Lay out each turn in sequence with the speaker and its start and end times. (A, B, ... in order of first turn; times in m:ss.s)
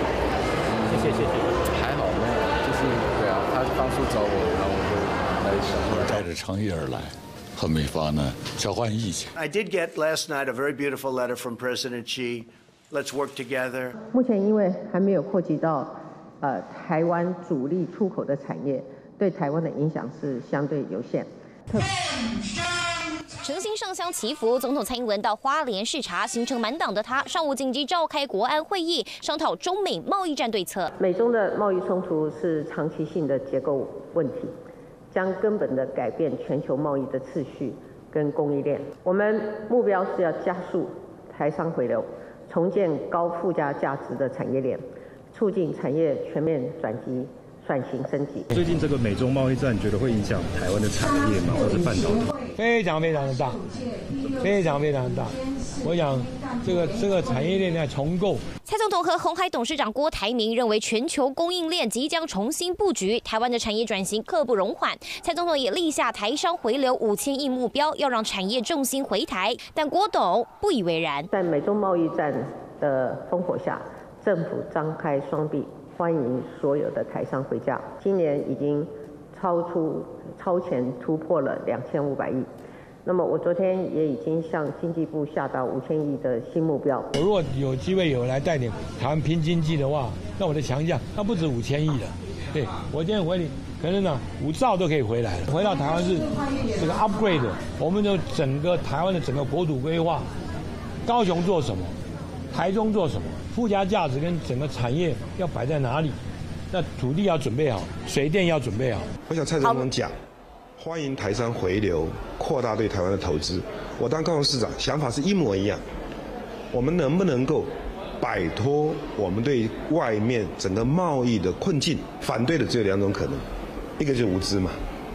0:00.7-0:06.2 A
0:05.9-0:09.3 B
0:09.4-0:14.0 C
0:14.1-0:21.3 D
0:23.4-0:30.9 E
0:31.0-0:34.6 D
0:35.1-0:48.5 D
0:48.5-0:52.3 F
0:52.6-0:53.6 G
0:54.4-0:58.4 G
0:58.6-1:11.3 E
1:11.3-1:22.5 D
1:23.0-1:27.1 D
1:27.1-1:40.3 G
1:41.1-1:41.9 G
1:42.5-1:46.2 G
1:46.7-1:49.1 G
1:49.3-1:50.2 H
1:50.8-1:55.8 H
1:56.7-2:03.4 H
2:04.0-2:04.8 H